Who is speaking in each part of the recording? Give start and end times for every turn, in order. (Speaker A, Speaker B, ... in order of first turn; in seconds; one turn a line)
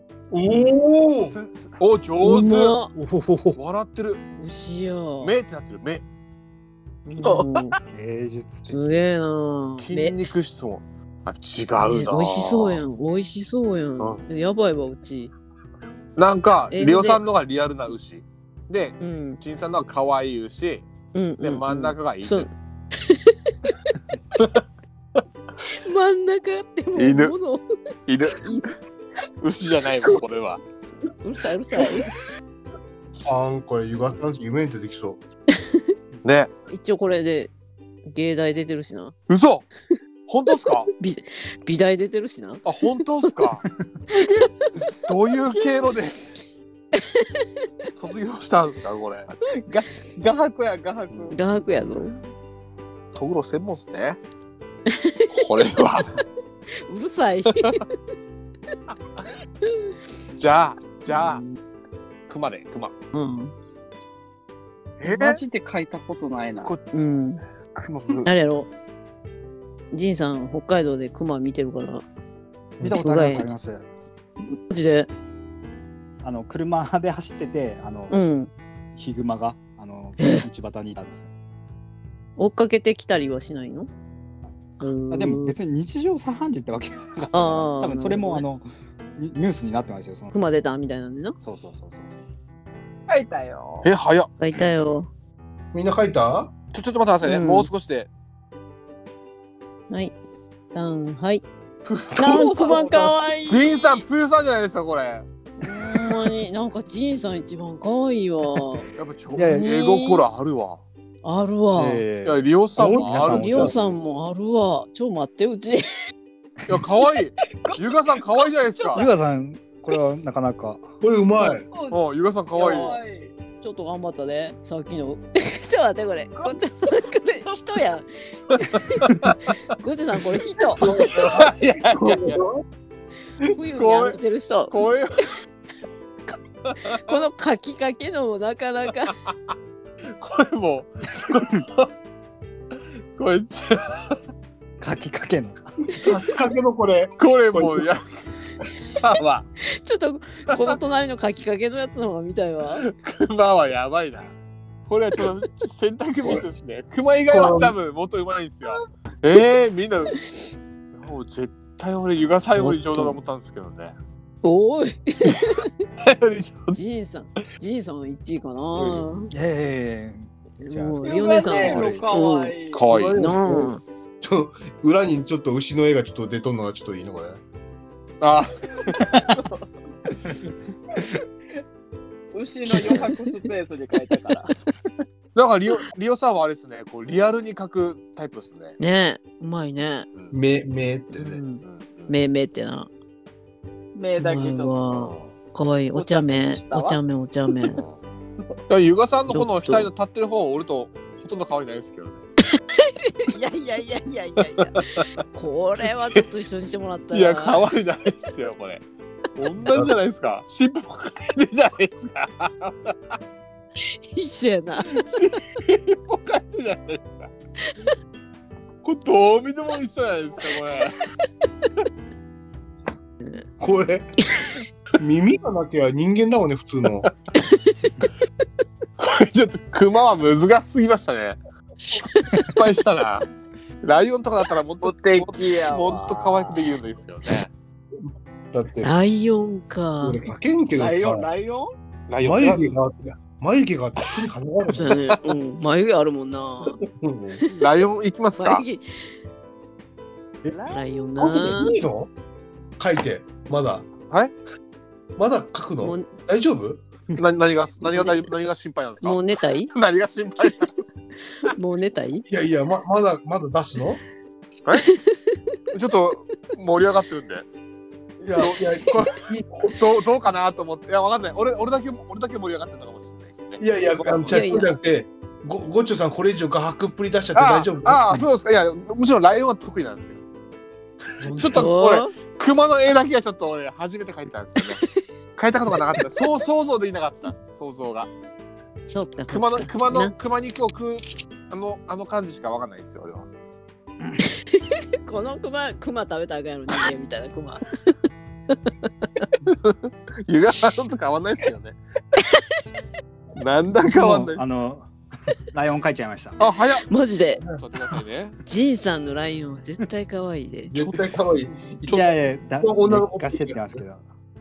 Speaker A: 0.3-1.3
Speaker B: 1.2-1.9
Speaker C: 1.8-2.8
Speaker D: 2.2-2.9
Speaker B: 2.9-3.6
Speaker C: 3.6-4.2
Speaker D: 4.4-5.3
Speaker C: 5.2-6.0
Speaker D: 7.1-7.8
Speaker E: 7.2-7.5
Speaker B: 7.9-9.0
Speaker D: 8.7-10.2
Speaker C: 9.8-12.8
Speaker D: 11.8-15.3
Speaker C: 16.2-20.9
Speaker D: 16.7-17.2
Speaker D: 19.0-19.4
Speaker D: 21.1-22.5
Speaker C: 21.4-22.5
Speaker D: 23.0-23.7
Speaker D: 25.8-27.6
Speaker C: 26.9-27.3
Speaker C: 28.1-28.5
Speaker D: 28.4-28.7
Speaker C: 29.4-30.6
Speaker D: 31.2-32.1
Speaker A: 33.2-35.2
Speaker C: 36.2-36.5
Speaker D: 36.7-37.5
Speaker D: 38.1-39.1
Speaker C: 39.3-39.7
Speaker C: 40.3-40.9
Speaker D: 41.0-42.7
Speaker C: 42.6-43.6
Speaker D: 44.1-44.7
Speaker C: 45.1-46.3
Speaker C: 48.0-49.3
Speaker E: 49.6-51.3
Speaker D: 51.3-52.2
Speaker C: 53.1-54.2
Speaker D: 54.9-55.4
Speaker C: 55.3-56.2
Speaker D: 56.9-57.9
Speaker C: 60.4-61.4
Speaker D: 61.1-61.5
Speaker C: 62.3-62.9
Speaker D: 63.1-63.5
Speaker C: 65.0-65.4
Speaker E: 65.0-66.7
Speaker C: 66.6-66.9
Speaker D: 66.9-67.4
Speaker C: 67.8-68.3
Speaker D: 68.2-68.7
Speaker D: 69.9-72.0
Speaker B: 72.8-73.9
Speaker D: 72.9-73.5
Speaker D: 74.5-75.1
Speaker B: 76.2-78.3
Speaker D: 78.1-78.5
Speaker B: 79.0-81.3
Speaker D: 80.2-80.4
Speaker D: 82.4-83.9
Speaker D: 84.8-85.5
Speaker B: 85.1-90.3
Speaker D: 87.3-88.4
Speaker D: 90.3-91.4
Speaker B: 91.4-92.2
Speaker E: 93.1-93.9
Speaker C: 93.8-94.3
Speaker D: 94.4-95.1
Speaker A: 95.7-96.5
Speaker C: 96.7-98.1
Speaker D: 97.2-97.7
Speaker D: 99.9-100.2
Speaker D: 100.7-101.4
Speaker C: 101.9-102.8
Speaker D: 102.2-103.7
Speaker E: 102.2-103.2
Speaker C: 103.5-105.2
Speaker D: 105.6-108.9
Speaker C: 109.0-110.8
Speaker B: 109.3-109.7
Speaker D: 109.5-110.2
Speaker D: 111.2-112.0
Speaker B: 111.7-114.0
Speaker C: 112.2-113.8
Speaker A: 112.8-113.2
Speaker D: 113.2-115.8
Speaker C: 116.7-119.0
Speaker E: 117.6-119.0
Speaker B: 118.9-120.9
Speaker A: 121.0-121.6
Speaker E: 121.4-122.0
Speaker C: 121.9-123.0
Speaker E: 122.5-123.3
Speaker D: 123.6-131.0
Speaker C: 128.5-129.6
Speaker C: 130.8-132.4
Speaker A: 130.9-131.4
Speaker A: 132.0-132.6
Speaker D: 133.5-134.8
Speaker C: 133.8-135.2
Speaker C: 136.6-137.2
Speaker D: 136.9-139.1
Speaker C: 140.1-141.9
Speaker C: 142.8-144.2
Speaker B: 144.8-145.6
Speaker A: 145.9-147.9
Speaker C: 147.2-148.1
Speaker C: 149.0-149.5
Speaker D: 149.6-152.8
Speaker C: 152.8-154.3
Speaker C: 154.9-160.2
Speaker A: 157.3-157.7
Speaker C: 160.9-163.9
Speaker D: 162.5-163.2
Speaker D: 164.4-165.7
Speaker C: 166.0-166.8
Speaker D: 166.7-169.3
Speaker B: 169.3-172.2
Speaker D: 170.6-173.8
Speaker E: 171.0-172.8
Speaker C: 172.7-173.2
Speaker A: 172.9-177.4
Speaker C: 178.2-179.2
Speaker E: 179.3-179.6
Speaker E: 182.3-184.5
Speaker C: 182.7-183.2
Speaker C: 185.3-188.8
Speaker D: 188.8-190.1
Speaker A: 190.3-191.4
Speaker D: 191.1-192.9
Speaker C: 191.6-192.1
Speaker E: 193.9-194.8
Speaker D: 194.2-197.8
Speaker C: 194.9-195.3
Speaker E: 195.9-197.0
Speaker C: 198.7-202.2
Speaker D: 199.3-199.9
Speaker E: 203.3-204.7
Speaker C: 204.4-205.0
Speaker D: 205.3-207.6
Speaker C: 205.8-206.2
Speaker C: 207.1-208.8
Speaker C: 209.4-212.9
Speaker D: 214.1-215.0
Speaker C: 214.9-217.3
Speaker C: 218.8-221.0
Speaker A: 223.6-224.0
Speaker A: 225.0-227.1
Speaker D: 227.4-228.0
Speaker C: 229.0-231.4
Speaker D: 231.9-232.5
Speaker C: 232.4-233.3
Speaker C: 233.8-237.5
Speaker E: 234.8-236.7
Speaker A: 238.0-238.9
Speaker D: 238.8-240.2
Speaker A: 240.0-241.3
Speaker E: 240.7-241.7
Speaker C: 242.1-242.8
Speaker A: 242.2-245.0
Speaker D: 244.7-246.8
Speaker A: 246.7-247.4
Speaker C: 247.5-248.6
Speaker D: 248.4-248.9
Speaker E: 250.5-250.9
Speaker D: 250.7-251.8
Speaker A: 251.2-252.1
Speaker A: 252.8-253.9
Speaker A: 255.2-256.8
Speaker D: 255.8-256.1
Speaker C: 257.1-259.2
Speaker D: 257.8-258.3
Speaker D: 259.0-259.7
Speaker C: 259.7-260.8
Speaker D: 261.4-262.2
Speaker A: 262.3-264.0
Speaker D: 264.7-265.4
Speaker C: 265.7-267.5
Speaker A: 268.2-269.7
Speaker C: 268.4-274.5
Speaker A: 273.6-278.3
Speaker D: 274.3-274.8
Speaker C: 277.3-280.2
Speaker D: 281.2-282.1
Speaker A: 281.3-281.6
Speaker C: 281.4-284.8
Speaker C: 285.4-288.1
Speaker D: 288.9-290.1
Speaker C: 289.3-293.3
Speaker D: 294.4-297.6
Speaker C: 299.4-301.8
Speaker C: 303.4-304.4
Speaker B: 303.7-304.9
Speaker B: 305.5-306.4
Speaker C: 306.4-306.9
Speaker D: 306.8-307.4
Speaker C: 307.5-308.4
Speaker D: 308.5-310.7
Speaker A: 310.7-313.7
Speaker B: 311.9-314.0